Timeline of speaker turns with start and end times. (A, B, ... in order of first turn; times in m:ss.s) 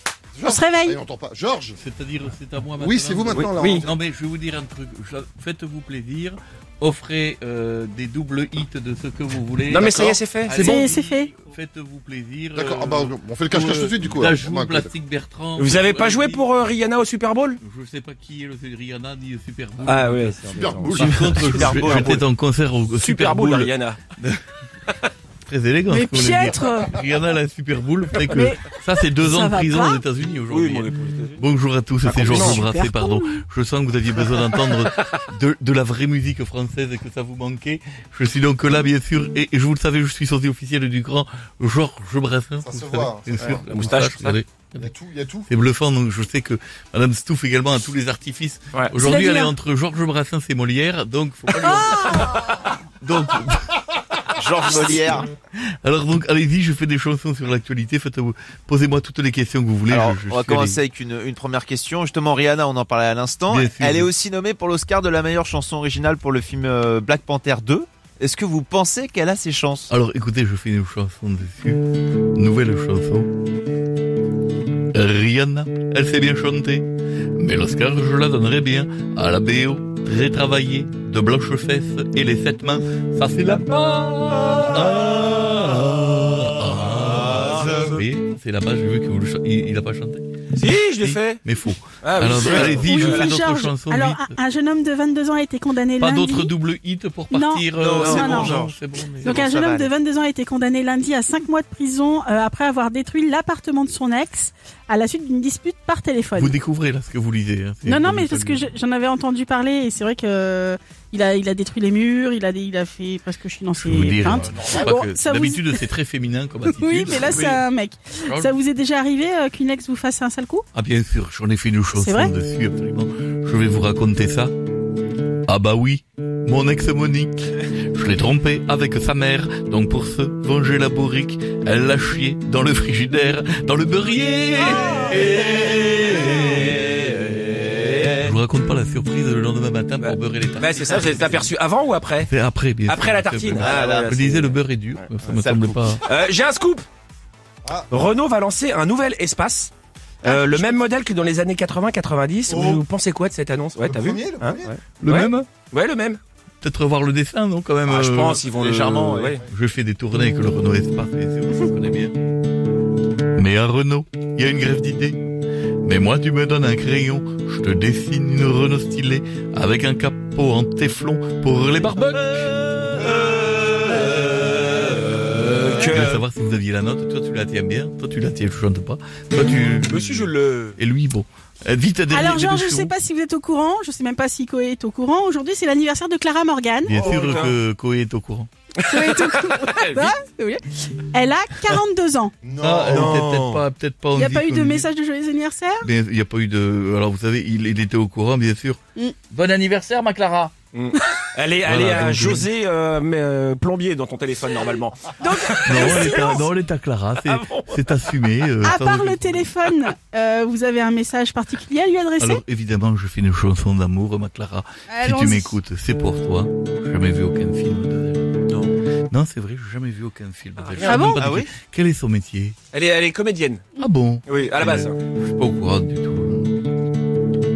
0:00.3-0:01.8 A
0:00.4-0:01.0 B
0:01.8-0:16.4 C
0:02.8-0:03.9 A
0:03.3-0:03.9 D
0:09.7-0:10.8 D
0:10.6-0:11.3 B
0:12.5-0:14.9 A
0:15.6-0:17.6 D
0:17.6-0:24.4 C
0:19.8-0:22.3 D
0:20.5-0:21.2 A
0:22.9-0:24.0 D
0:25.5-0:44.7 C
0:25.9-0:27.0 B
0:28.3-0:30.0 B
0:30.5-0:31.4 D
0:32.0-0:32.7 D
0:32.5-0:33.4 B
0:34.2-0:35.2 D
0:42.6-0:43.7 A
0:43.4-0:44.4 D
0:44.8-0:45.5 A
0:45.5-0:52.3 C
0:49.0-0:49.5 B
0:51.6-0:52.5 B
0:53.0-0:53.8 C
0:54.4-0:55.3 E
0:54.7-1:00.8 C
0:59.9-1:09.9 E
1:03.5-1:04.1 C
1:09.9-1:11.8 C
1:12.3-1:13.3 C
1:14.9-1:30.3 C
1:27.5-1:27.9 E
1:30.5-1:31.4 D
1:31.0-1:34.4 C
1:32.0-1:33.3 D
1:32.6-1:36.5 B
1:36.0-1:39.4 C
1:37.3-1:38.6 B
1:37.8-1:39.9 E
1:38.0-1:38.4 D
1:39.2-1:46.6 B
1:46.4-1:48.7 C
1:47.9-1:55.9 B
1:53.8-1:57.6 C
1:54.6-1:54.8 A
1:56.7-2:00.6 B
1:57.2-1:57.6 D
1:58.2-1:58.5 C
2:00.7-2:04.5 C
2:01.9-2:02.4 B
2:05.5-2:17.1 C
2:14.7-2:18.2 D
2:18.1-2:21.5 C
2:20.0-2:22.3 D
2:22.3-2:26.1 C
2:22.9-2:24.6 D
2:23.5-2:24.3 E
2:25.3-2:26.0 E
2:26.0-2:26.9 D
2:27.6-2:27.9 A
2:27.9-2:29.7 D
2:30.2-2:36.2 D
2:32.5-2:32.8 A
2:33.8-2:34.8 A
2:35.0-2:35.5 C
2:36.6-2:42.2 C
2:37.9-2:39.4 D
2:38.4-2:39.4 E
2:43.4-2:45.2 C
2:45.8-2:52.6 C
2:53.5-2:56.2 D
2:54.6-3:02.9 C
2:59.8-3:00.8 D
3:02.1-3:07.3 B
3:06.8-3:08.5 C
3:06.9-3:07.6 D
3:08.8-3:12.4 B
3:08.9-3:10.2 D
3:12.4-3:13.1 A
3:12.6-3:14.9 C
3:12.8-3:13.6 D
3:14.1-3:15.9 B
3:15.8-3:18.8 C
3:19.3-3:20.5 C
3:20.7-3:26.4 D
3:21.6-3:22.5 C
3:25.2-3:26.5 B
3:25.6-3:29.5 C
3:27.2-3:28.5 D
3:28.6-3:32.4 B
3:32.2-3:38.4 C
3:34.9-3:35.6 B
3:39.1-3:42.6 C
3:40.6-3:41.2 D
3:40.8-3:41.2 B
3:40.8-3:41.5 E
3:42.7-3:43.7 D
3:43.8-3:46.5 C
3:44.3-3:45.0 D